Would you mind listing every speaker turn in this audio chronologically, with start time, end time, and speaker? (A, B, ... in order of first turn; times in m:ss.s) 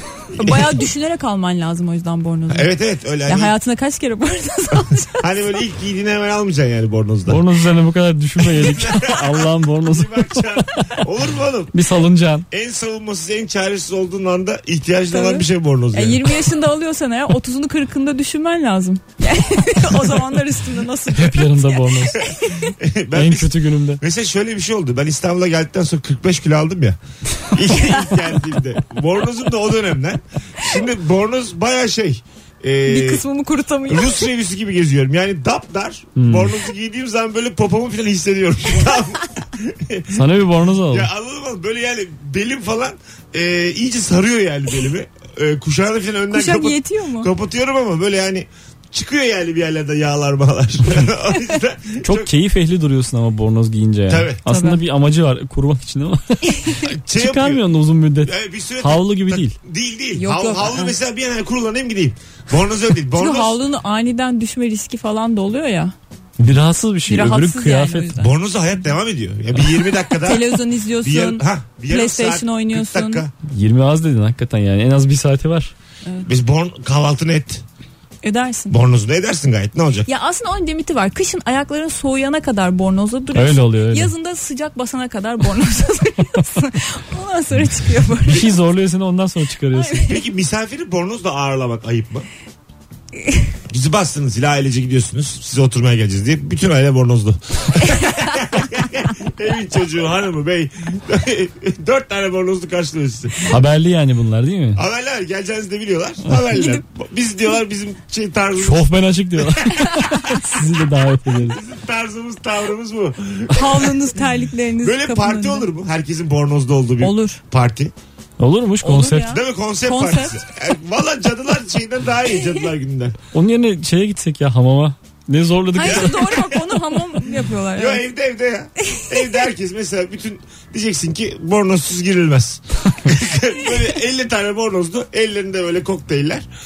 0:00.3-0:00.8 A
0:00.4-0:02.7 B
0:02.5-0:03.6 A
0:03.2-0:05.3 B
0:05.2-0:07.4 A
0:07.3-0:10.9 C
0:08.4-0:11.8 A
0:11.7-0:12.5 C
0:12.5-0:16.4 A
0:15.1-0:22.7 B
0:21.1-0:22.2 C
0:22.2-0:33.2 A
0:23.1-0:24.0 C
0:27.8-0:28.0 B
0:32.8-0:34.3 B
0:33.9-0:40.3 A
0:36.2-0:36.5 C
0:40.1-0:41.1 C
0:40.9-0:52.3 A
0:46.3-0:47.3 B
0:52.0-0:59.6 C
0:54.1-0:54.4 A
0:54.5-0:54.8 B
0:56.5-0:56.8 B
0:56.8-0:57.6 A
0:58.2-1:03.6 A
1:00.2-1:01.0 B
1:03.2-1:06.0 B
1:06.4-1:08.1 C
1:07.1-1:08.3 B
1:08.2-1:13.3 A
1:10.2-1:13.2 B
1:13.5-1:15.7 C
1:16.2-1:17.6 A
1:18.2-1:18.8 B
1:18.7-1:20.1 A
1:20.1-1:28.5 B
1:23.4-1:24.1 C
1:28.2-1:30.0 C
1:29.7-1:30.2 B
1:30.0-1:32.3 A
1:33.7-1:43.6 A
1:43.5-1:44.8 C
1:44.8-1:48.9 A
1:46.5-1:46.8 B
1:48.6-1:51.6 C
1:49.6-1:49.9 A
1:51.5-1:54.0 A
1:53.5-1:55.7 B
1:54.8-1:57.9 A
1:57.0-1:57.4 B
1:58.4-1:59.4 C
1:58.8-2:00.4 B
1:59.3-2:03.2 A
2:03.3-2:06.4 C
2:05.8-2:08.0 B
2:05.9-2:06.7 A
2:07.7-2:16.4 A